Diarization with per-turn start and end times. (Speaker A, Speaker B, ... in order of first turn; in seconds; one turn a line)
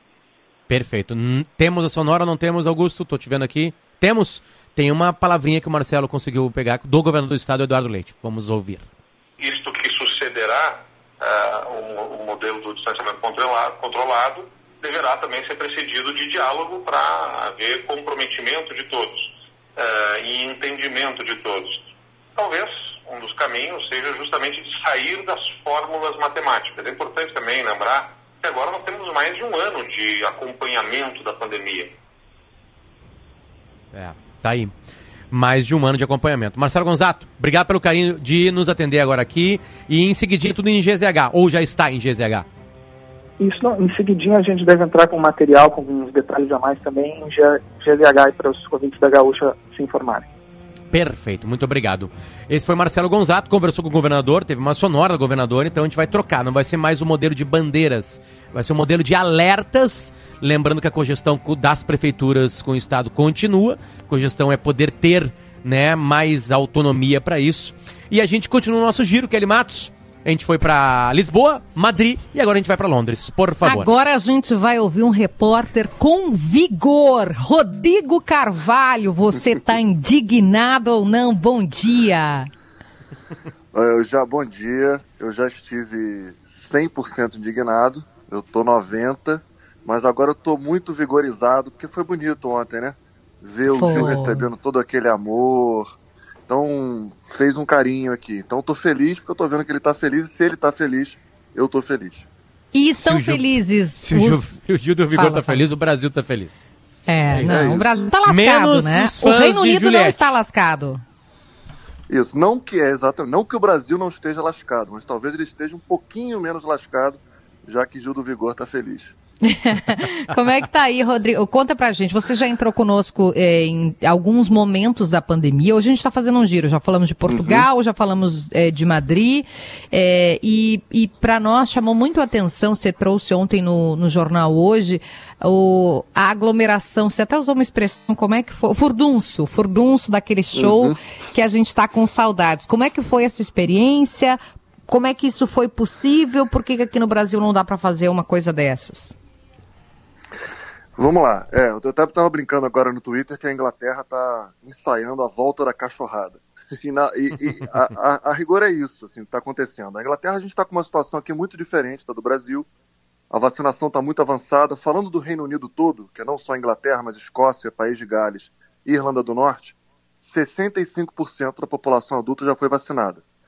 Speaker A: 0.7-8.9
Speaker B: 9.4-31.9
Speaker A: 33.9-34.7
Speaker A: 35.3-42.5
Speaker C: 43.4-50.3
Speaker A: 50.9-73.9
Speaker D: 73.6-82.5
Speaker E: 83.7-95.9
Speaker D: 93.7-94.5
Speaker E: 96.5-102.3
Speaker D: 102.7-104.6
Speaker A: 103.0-103.5
Speaker A: 104.0-106.7
Speaker D: 105.1-105.6
Speaker D: 107.1-111.0
Speaker A: 107.3-110.3
Speaker E: 107.5-107.9
Speaker E: 112.1-119.2
Speaker D: 119.5-149.2
Speaker E: 127.3-127.7
Speaker E: 140.6-141.0
Speaker E: 151.0-162.7
Speaker E: 163.3-173.2